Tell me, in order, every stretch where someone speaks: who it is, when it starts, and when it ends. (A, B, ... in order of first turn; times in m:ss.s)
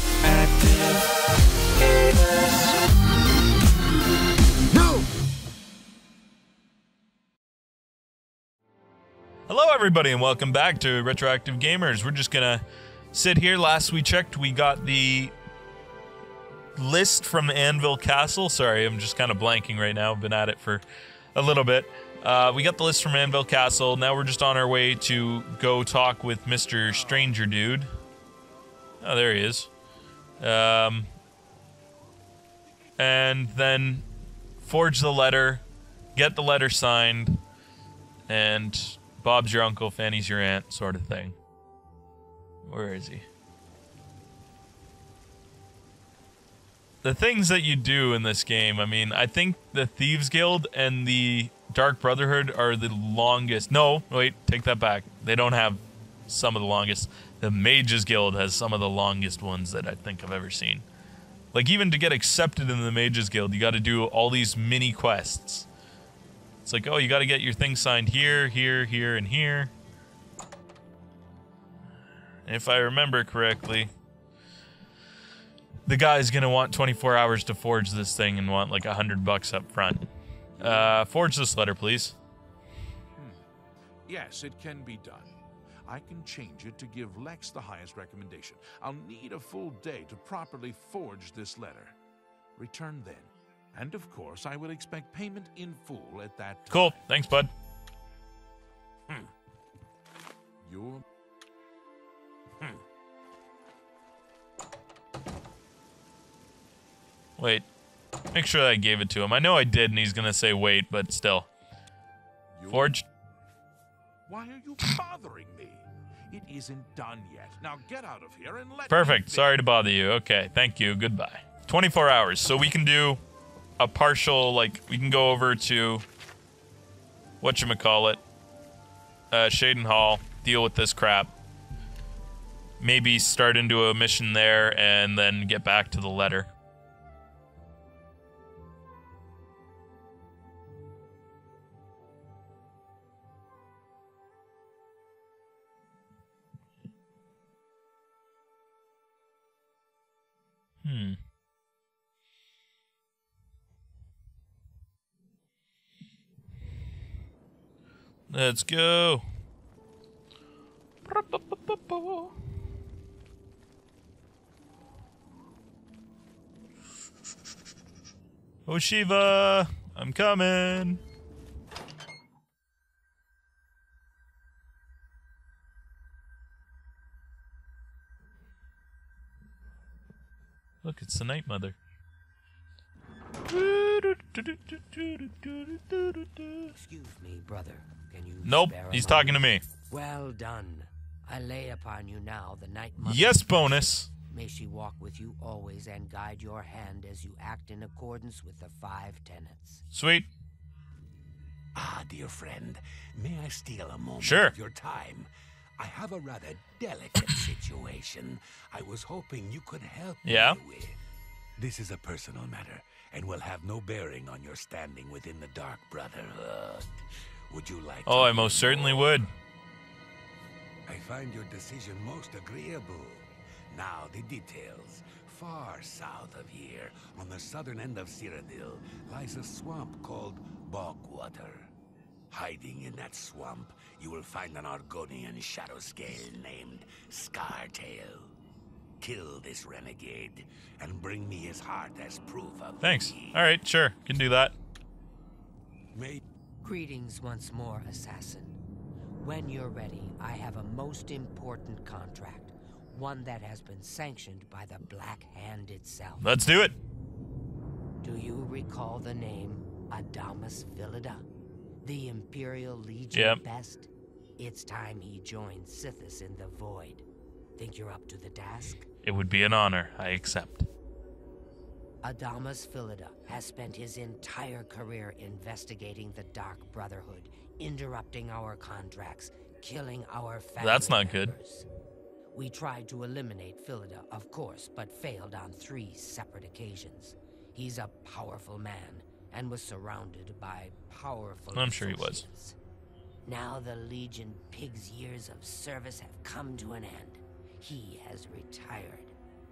0:09.5-0:15.3 A
0:16.8-0:20.8 A
0:21.3-0:27.9 A
0:29.0-0:29.7 A
0:30.4-0:31.1 A
0:33.0-0:34.0 A
0:34.6-0:35.6 A
0:36.1-0:37.4 A
0:38.3-0:41.4 A
0:42.6-0:43.2 A
0:47.0-1:00.8 A
1:01.5-1:05.7 A
1:06.6-1:09.7 A
1:12.4-1:13.9 A
1:15.8-1:20.1 A
1:20.6-1:20.9 B
1:20.6-1:22.2 A
1:23.1-1:23.4 B
1:24.1-1:25.3 B
1:25.8-1:32.0 B
1:32.6-1:37.1 B
1:36.7-1:37.5 A
1:40.6-1:41.0 B
1:47.4-1:47.6 A
1:48.3-1:51.5 A
1:52.5-1:53.0 B
1:52.7-1:53.0 A
1:54.3-1:59.5 B
1:58.9-2:03.2 A
2:03.8-2:06.0 A
2:07.4-2:08.2 A
2:09.3-2:11.3 A
2:12.8-2:16.5 A
2:30.8-2:31.2 A
2:38.3-2:39.2 A
2:41.0-2:42.4 A
2:48.6-2:51.0 A
3:00.8-3:01.8 A
3:03.5-3:06.7 A
3:06.7-3:19.8 C
3:08.4-3:09.6 A
3:13.0-3:14.1 A
3:19.9-3:20.3 A
3:21.7-3:31.0 D
3:24.2-3:24.5 A
3:30.2-3:30.6 A
3:31.6-3:39.3 D
3:38.0-3:39.3 A
3:40.8-3:51.7 D
3:52.3-3:58.3 D
3:59.0-4:03.4 D
4:02.8-4:04.5 A
4:05.9-4:06.2 D
4:06.6-4:08.6 C
4:09.2-4:16.3 C
4:16.2-4:16.8 A
4:18.0-4:21.2 C
4:21.8-4:27.0 C
4:23.1-4:23.4 A
4:27.6-4:28.9 C
4:29.0-4:30.7 A
4:32.0-4:41.6 C
4:40.6-4:41.3 A
4:42.3-4:52.6 C
4:51.5-4:52.2 A
4:53.2-4:59.1 C